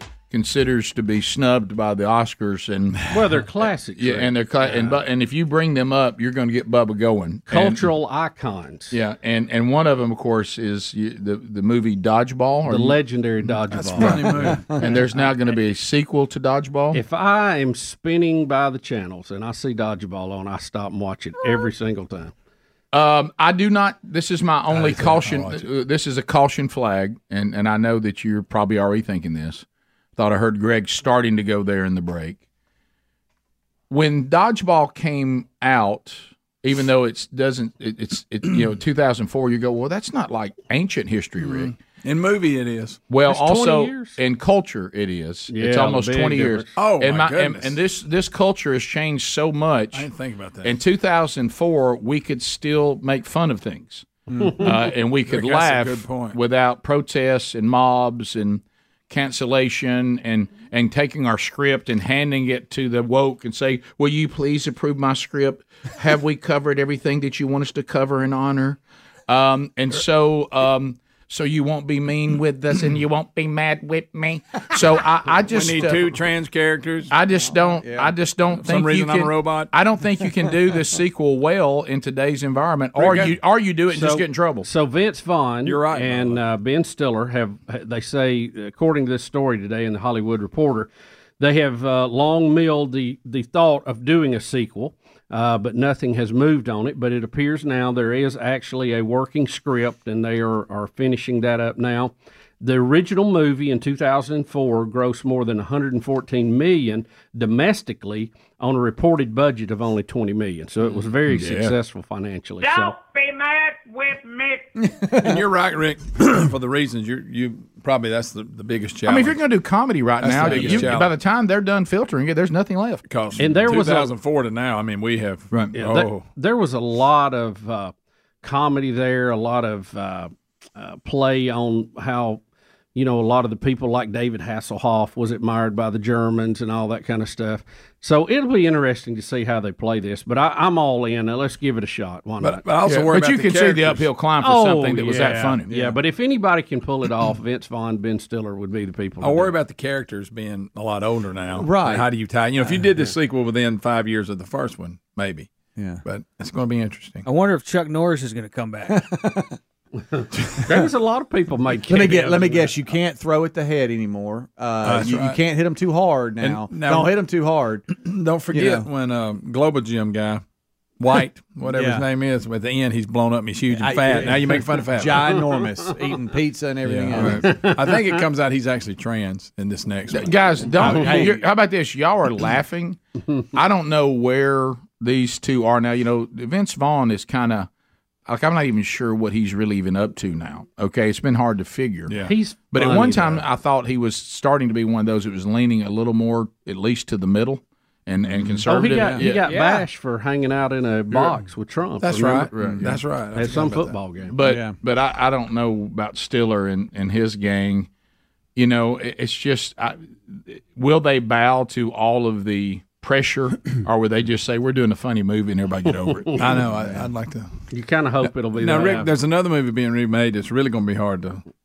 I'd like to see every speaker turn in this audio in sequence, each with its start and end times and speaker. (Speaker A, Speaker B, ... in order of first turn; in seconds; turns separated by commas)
Speaker A: 0.3-3.0, Speaker B: 3.1-5.0, Speaker A: 4.0-7.9, Speaker B: 7.5-8.9, Speaker A: 8.9-13.0, Speaker B: 12.7-14.6, Speaker C: 13.7-14.7, Speaker A: 14.8-17.0, Speaker B: 16.9-22.3, Speaker A: 22.9-29.6, Speaker C: 24.7-25.6, Speaker A: 30.1-32.4, Speaker A: 33.9-41.7, Speaker C: 41.4-43.0, Speaker A: 43.1-50.1, Speaker B: 43.3-44.1, Speaker B: 45.5-46.7, Speaker C: 46.8-47.8, Speaker C: 49.9-50.8, Speaker A: 50.6-76.1, Speaker C: 54.3-56.4, Speaker C: 75.5-77.1, Speaker A: 77.1-84.7, Speaker D: 77.3-78.1, Speaker C: 78.6-79.7, Speaker C: 83.0-83.3, Speaker B: 83.9-112.9, Speaker C: 85.6-86.4, Speaker C: 111.2-111.7, Speaker E: 112.6-114.7, Speaker C: 115.1-119.4, Speaker A: 119.0-123.0, Speaker C: 120.2-121.1, Speaker B: 120.5-120.8, Speaker C: 123.1-126.2, Speaker B: 123.4-124.1, Speaker B: 125.7-132.4, Speaker B: 132.9-142.7, Speaker C: 142.4-144.1, Speaker A: 142.8-145.7, Speaker B: 144.4-149.5, Speaker C: 149.2-155.5, Speaker D: 151.6-152.1, Speaker D: 155.8-156.0, Speaker C: 156.0-157.2, Speaker F: 157.2-159.0, Speaker D: 158.9-159.4, Speaker B: 160.1-162.7, Speaker D: 161.9-167.8, Speaker C: 164.8-165.4, Speaker C: 166.4-167.1, Speaker C: 167.9-170.4, Speaker D: 168.5-168.9, Speaker C: 171.0-175.4, Speaker D: 171.7-172.0, Speaker D: 173.7-177.4, Speaker C: 176.8-181.2, Speaker B: 177.4-178.1, Speaker A: 180.1-183.0, Speaker D: 180.8-181.4, Speaker A: 183.5-187.7, Speaker A: 188.3-192.1, Speaker C: 192.1-192.3, Speaker B: 192.2-193.4, Speaker A: 192.7-199.5, Speaker B: 198.7-202.5, Speaker F: 199.4-199.8, Speaker C: 201.1-201.4, Speaker C: 202.0-203.9, Speaker A: 202.6-202.8, Speaker B: 203.3-204.3, Speaker A: 204.3-207.9, Speaker D: 204.4-204.7, Speaker A: 208.6-216.6, Speaker B: 215.9-216.2, Speaker C: 216.3-217.5, Speaker B: 217.7-219.1, Speaker C: 218.5-221.4